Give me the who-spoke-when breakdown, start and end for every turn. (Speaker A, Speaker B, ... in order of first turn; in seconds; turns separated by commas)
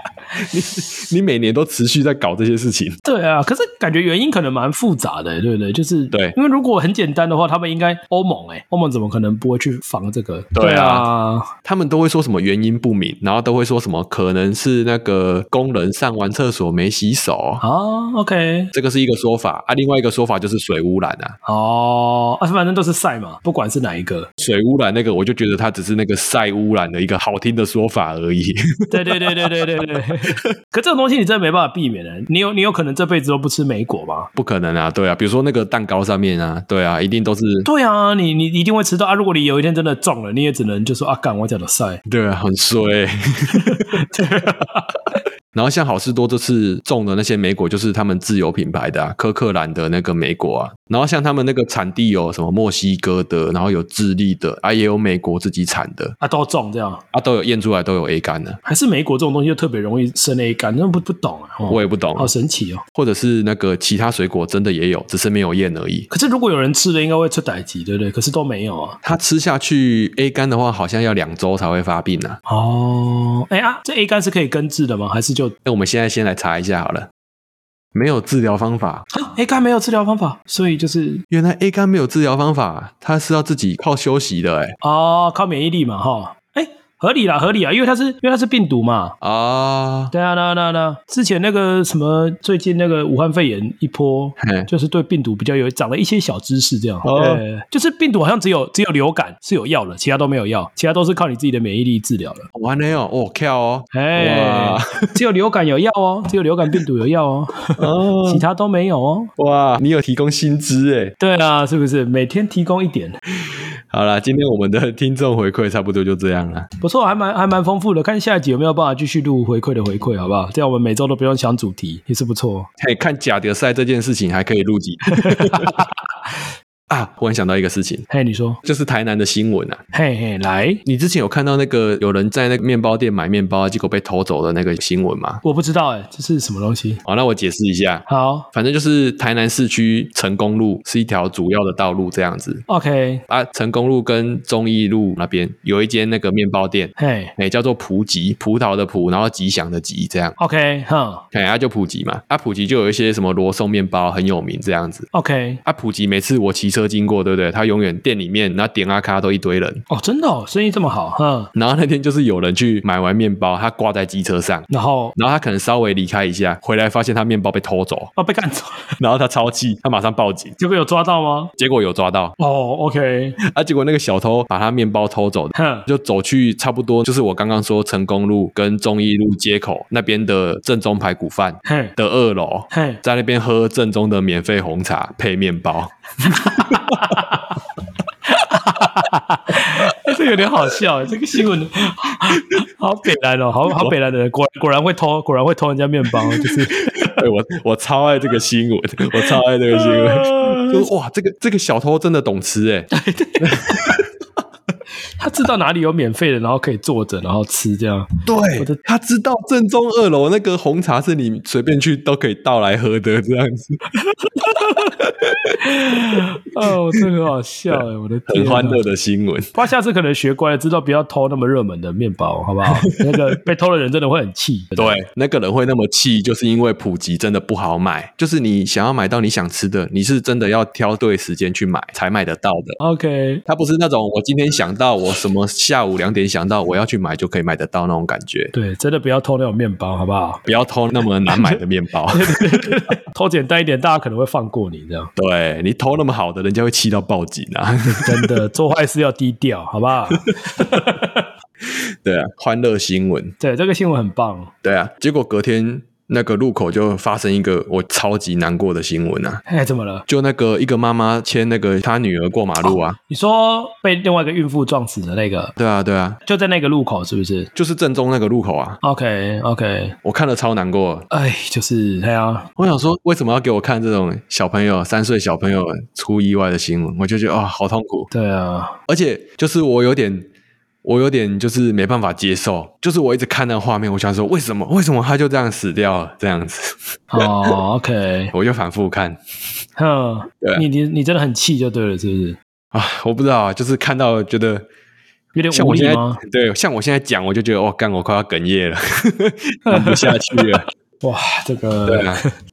Speaker A: 0.3-3.0, Speaker B: 3.0-11.5, Speaker A: 10.5-11.1, Speaker A: 11.6-17.6, Speaker B: 17.6-18.7, Speaker A: 18.7-21.4, Speaker B: 21.4-24.3, Speaker A: 24.4-30.5, Speaker B: 28.9-34.3, Speaker A: 34.4-37.7, Speaker B: 37.6-42.0, Speaker A: 42.0-44.5, Speaker B: 43.5-44.9, Speaker A: 45.5-56.2, Speaker B: 56.2-57.0, Speaker A: 57.1-58.6, Speaker B: 58.6-62.8, Speaker A: 61.7-62.3, Speaker A: 62.9-66.1, Speaker B: 66.1-69.0, Speaker A: 69.0-72.4, Speaker B: 72.5-75.5, Speaker A: 75.6-77.1, Speaker A: 77.9-79.1, Speaker B: 79.1-81.2, Speaker A: 81.3-84.8, Speaker B: 84.8-89.1, Speaker A: 89.2-90.1, Speaker B: 90.1-102.5, Speaker A: 94.4-94.7, Speaker A: 97.0-97.4, Speaker A: 102.5-105.2, Speaker B: 103.9-109.3, Speaker A: 107.8-108.4, Speaker A: 109.4-111.1, Speaker B: 111.2-113.2, Speaker A: 113.5-116.7, Speaker B: 116.8-122.7, Speaker A: 122.8-125.8, Speaker B: 125.2-125.9, Speaker A: 126.9-128.1, Speaker B: 128.1-128.6, Speaker A: 128.6-129.8, Speaker B: 129.9-130.8, Speaker A: 130.8-135.4, Speaker B: 135.4-137.0, Speaker A: 137.0-142.6, Speaker B: 138.1-138.5, Speaker B: 142.7-143.2, Speaker A: 143.3-150.3, Speaker B: 147.0-147.3, Speaker B: 150.4-151.2, Speaker A: 151.3-155.1, Speaker B: 155.1-155.6, Speaker A: 155.6-159.8, Speaker B: 159.9-161.5, Speaker A: 161.5-168.1, Speaker B: 164.7-165.1, Speaker B: 168.2-168.9, Speaker A: 169.0-170.6, Speaker B: 170.6-171.5, Speaker A: 171.6-172.3, Speaker B: 172.4-173.4, Speaker A: 173.4-187.2, Speaker B: 175.5-175.8, Speaker B: 181.6-181.9, Speaker B: 182.7-183.0, Speaker B: 186.4-187.3, Speaker B: 188.2-196.9, Speaker A: 196.3-204.1, Speaker B: 199.1-200.9, Speaker B: 202.9-204.0, Speaker B: 205.2-208.8, Speaker A: 208.2-213.8, Speaker B: 214.0-214.9, Speaker A: 214.7-216.2, Speaker B: 215.6-218.8, Speaker A: 217.7-219.5, Speaker B: 219.5-224.9, Speaker A: 222.7-223.4, Speaker A: 224.8-232.8, Speaker B: 232.8-233.4, Speaker A: 233.4-238.5, Speaker B: 238.5-240.4, Speaker A: 240.4-242.8, Speaker B: 241.3-245.1, Speaker A: 245.2-248.4, Speaker B: 248.0-251.3, Speaker A: 250.6-250.8, Speaker A: 251.6-253.3, Speaker B: 253.4-254.5, Speaker A: 254.6-259.4, Speaker B: 259.5-260.0, Speaker A: 260.1-263.0, Speaker B: 262.6-265.5, Speaker A: 265.6-266.2, Speaker B: 266.2-267.5, Speaker A: 267.5-268.8, Speaker B: 268.8-270.0, Speaker A: 270.0-271.1, Speaker B: 271.1-272.5, Speaker A: 272.6-278.1, Speaker B: 278.1-278.8, Speaker A: 278.9-280.2, Speaker A: 280.8-287.6, Speaker B: 287.1-288.3, Speaker A: 288.3-289.2, Speaker B: 289.8-292.4, Speaker A: 290.4-290.6, Speaker A: 292.7-294.6, Speaker B: 295.3-296.2, Speaker A: 295.5-300.6, Speaker B: 299.7-302.3, Speaker A: 301.9-302.2